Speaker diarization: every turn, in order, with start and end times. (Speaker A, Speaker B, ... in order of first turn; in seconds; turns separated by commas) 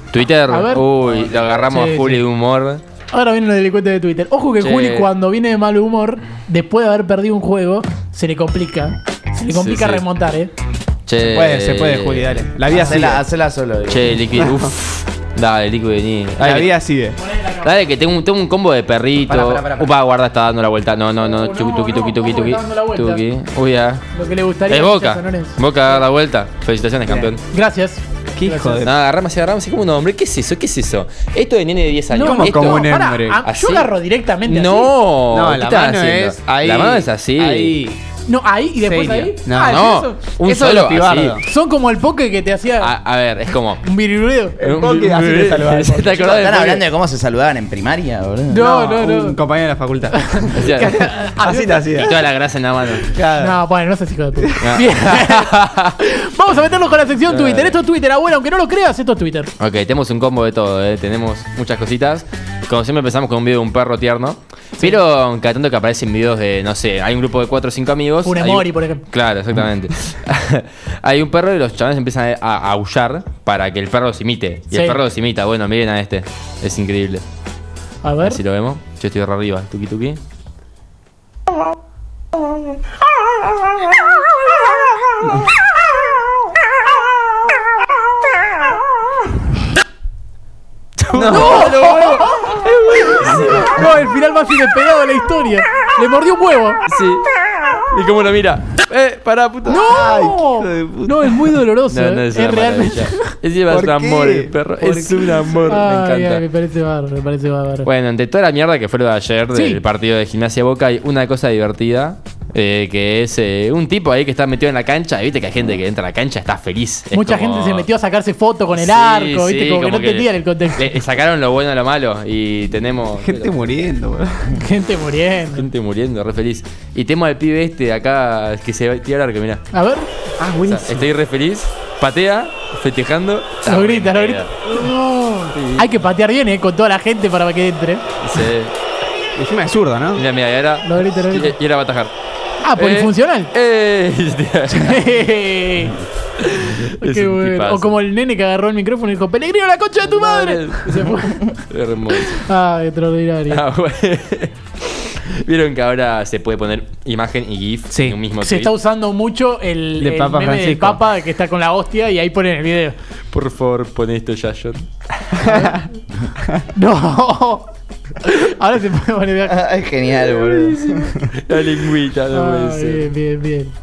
Speaker A: 0.1-2.8, Speaker B: 0.5-1.0, Speaker B: 1.5-2.2, Speaker B: 3.1-10.5, Speaker A: 4.6-5.1, Speaker A: 9.5-10.0, Speaker A: 11.1-12.4, Speaker C: 11.2-13.2, Speaker D: 12.7-14.2, Speaker A: 13.9-16.7, Speaker C: 14.4-14.7, Speaker C: 16.4-17.2, Speaker B: 17.2-17.6, Speaker A: 17.6-24.0, Speaker C: 19.3-19.9, Speaker B: 21.2-23.2, Speaker B: 24.1-26.0, Speaker A: 24.7-27.4, Speaker C: 27.0-27.3, Speaker B: 27.5-28.9, Speaker C: 28.4-28.9, Speaker A: 28.8-32.9, Speaker B: 32.1-34.9, Speaker C: 32.1-33.4, Speaker A: 33.4-33.9, Speaker A: 34.5-37.8, Speaker C: 35.3-38.0, Speaker B: 38.3-40.3, Speaker C: 38.8-41.4, Speaker A: 39.6-41.4, Speaker B: 41.4-42.9, Speaker A: 42.8-43.8, Speaker B: 43.8-44.6, Speaker C: 44.6-46.5, Speaker A: 44.6-46.8, Speaker D: 46.2-48.6, Speaker B: 48.5-49.4, Speaker C: 48.5-52.2, Speaker B: 50.1-51.9, Speaker A: 50.5-50.9, Speaker A: 52.0-53.1, Speaker C: 53.1-53.6, Speaker B: 53.4-59.5, Speaker A: 54.6-55.9, Speaker A: 57.2-57.8, Speaker A: 59.6-77.2, Speaker B: 68.2-69.0, Speaker B: 74.7-75.0, Speaker B: 78.0-78.4, Speaker A: 78.2-80.2, Speaker A: 91.0-93.7, Speaker C: 91.1-91.6, Speaker B: 91.3-96.8, Speaker A: 96.9-97.3, Speaker A: 97.9-99.9, Speaker B: 99.7-103.3, Speaker C: 99.8-101.6, Speaker A: 101.9-106.4, Speaker C: 103.7-105.7, Speaker B: 105.6-107.9, Speaker A: 107.8-117.9, Speaker B: 109.5-109.8, Speaker B: 117.1-120.9, Speaker A: 118.8-123.7, Speaker C: 123.1-124.6, Speaker B: 124.5-125.7, Speaker A: 125.5-129.6, Speaker B: 129.7-130.1, Speaker C: 130.4-131.1, Speaker A: 130.6-134.5, Speaker B: 133.6-138.0, Speaker A: 135.5-136.0, Speaker A: 138.2-138.7, Speaker C: 139.4-140.2, Speaker A: 140.1-142.1, Speaker B: 140.8-141.5, Speaker B: 142.6-143.5, Speaker A: 142.8-145.1, Speaker B: 144.7-146.0, Speaker A: 146.4-147.9, Speaker B: 146.6-151.6, Speaker A: 150.0-152.4, Speaker B: 152.2-153.6, Speaker A: 153.5-158.7, Speaker C: 157.9-158.2, Speaker B: 158.4-162.9, Speaker C: 160.0-161.0, Speaker A: 163.3-165.4, Speaker C: 165.4-165.8, Speaker B: 165.4-165.8, Speaker B: 166.7-167.6, Speaker B: 168.2-169.6, Speaker D: 169.4-171.1, Speaker A: 170.2-173.1, Speaker B: 172.3-173.7